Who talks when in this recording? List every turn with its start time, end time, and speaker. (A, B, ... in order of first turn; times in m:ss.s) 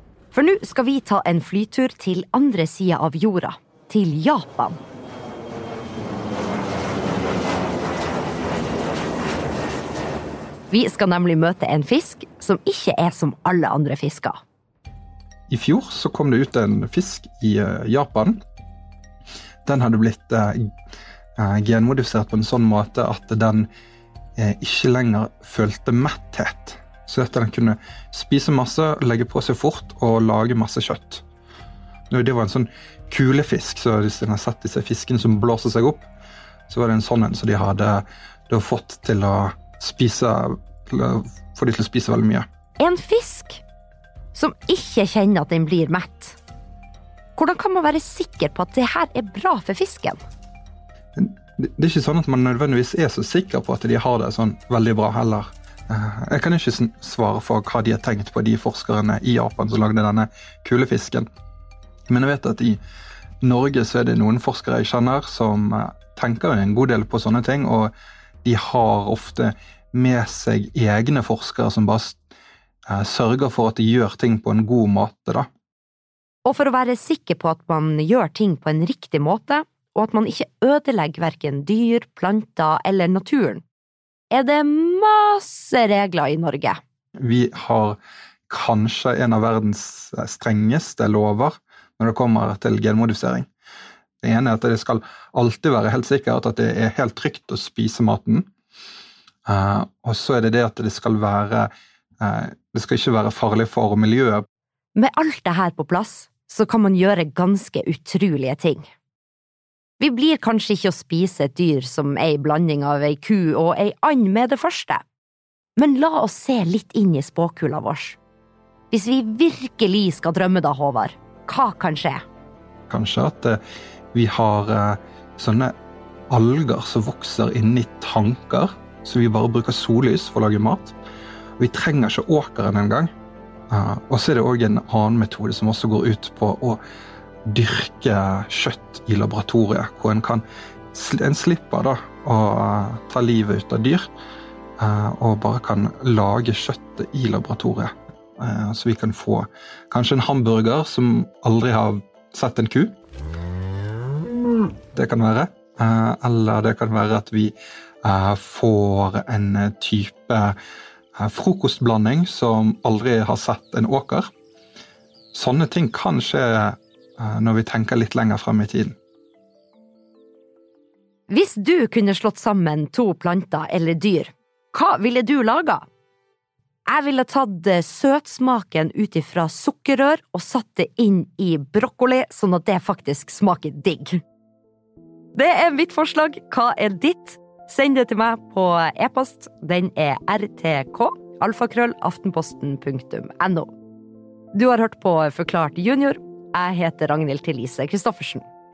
0:00.3-0:04.8 A
0:10.7-0:14.4 A
0:15.5-0:18.4 B
0:19.6-0:20.6 B
0:21.4-0:23.7 B
0:24.4-0:31.2 B
0:32.1-0:36.1 B
0:36.7-0:42.4 B
0:42.8-0:43.6 A
0:44.3-0:46.4 A
0:47.4-0:50.2 A
0:51.2-1:01.3 B
1:02.1-1:02.8 B
1:03.4-1:07.9 B
1:08.4-1:12.2 B
1:12.9-1:15.5 B
1:16.5-1:23.6 A
1:24.3-1:26.8 A
1:27.2-1:28.0 B
1:28.5-1:33.5 B
1:34.2-1:38.5 B
1:39.5-1:41.7 B
1:42.2-1:44.4 B
1:45.0-1:48.9 A
1:50.0-1:55.0 A
1:55.8-1:58.2 A
1:58.9-2:02.2 A
2:02.9-2:03.6 B
2:04.1-2:05.7 B
2:06.3-2:11.0 B
2:11.6-2:13.1 B
2:13.7-2:16.8 B
2:17.5-2:24.1 B
2:24.8-2:33.0 B
2:34.9-2:40.6 B
2:41.2-2:44.3 B
2:45.3-2:49.0 B
2:51.3-2:55.9 A
2:56.9-3:04.2 A
3:05.4-3:13.7 A
3:14.5-3:18.4 A